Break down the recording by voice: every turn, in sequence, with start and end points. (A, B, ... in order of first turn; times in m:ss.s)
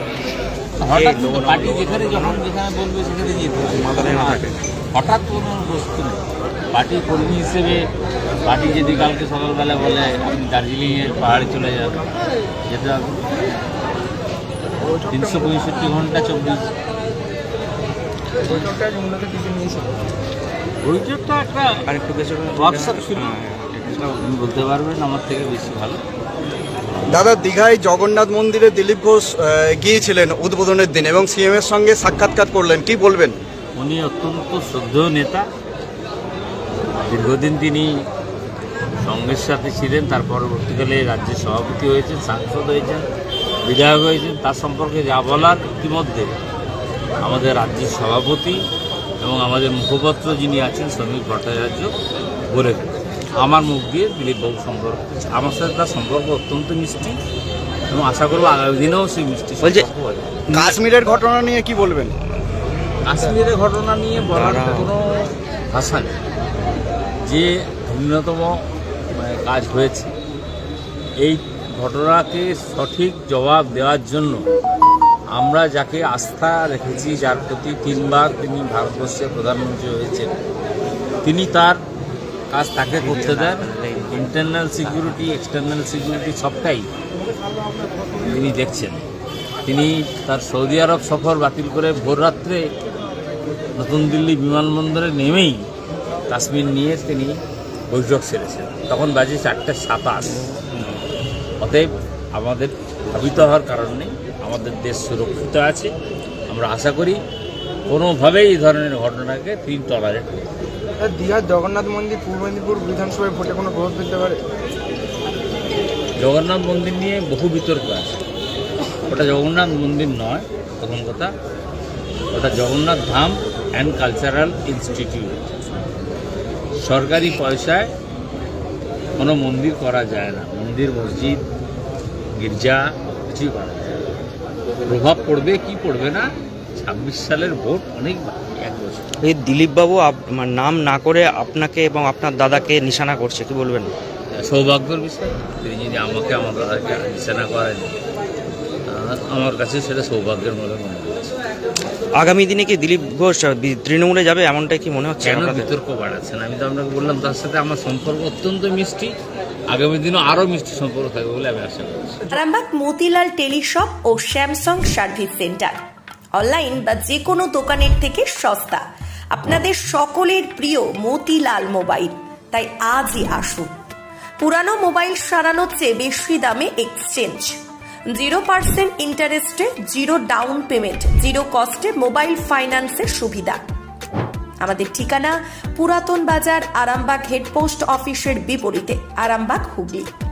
0:00.8-0:07.9 A
0:00.9-0:02.4 B
0:03.6-0:04.5 B
0:08.4-0:12.1 A
0:12.7-0:13.4 A
0:14.8-0:15.6 C
0:15.1-0:16.7 A
0:18.4-0:20.0 C
0:20.8-0:21.8 A
0:21.9-0:24.2 B
0:22.5-0:23.3 A
0:24.2-0:26.0 A
0:27.1-0:33.4 D
0:33.8-0:35.5 A
0:37.0-0:37.9 A
0:39.0-0:43.1 A
0:43.6-0:46.4 A
0:47.2-0:48.6 A
0:49.2-0:51.9 A
0:52.5-0:57.2 A
0:57.9-1:00.4 A
0:59.6-0:59.9 B
1:00.5-1:00.8 B
1:00.5-1:02.2 D
1:03.0-1:06.2 A
1:04.2-1:04.9 B
1:07.2-1:08.6 A
1:09.1-1:10.1 A
1:11.2-1:14.4 A
1:15.3-1:20.3 A
1:21.2-1:21.8 A
1:22.5-1:26.9 A
1:22.9-1:25.2 B
1:28.2-1:29.1 A
1:29.6-1:32.6 A
1:33.8-1:35.6 A
1:36.3-1:37.4 A
1:37.9-1:40.4 A
1:41.6-1:45.9 A
1:46.5-1:47.2 A
1:47.9-1:50.5 A
1:51.0-1:54.4 C
1:56.2-1:58.2 A
1:59.1-2:01.3 A
2:02.3-2:05.4 A
2:06.8-2:07.9 A
2:09.2-2:11.4 A
2:12.4-2:14.0 A
2:14.8-2:19.1 A
2:19.2-2:23.9 B
2:24.3-2:27.9 A
2:28.9-2:31.3 A
2:32.2-2:35.7 B
2:35.2-2:39.1 A
2:39.7-2:42.4 A
2:42.3-2:45.8 E
2:46.4-2:53.7 E
2:54.4-2:57.6 E
2:58.1-3:03.6 E
3:04.6-3:10.1 E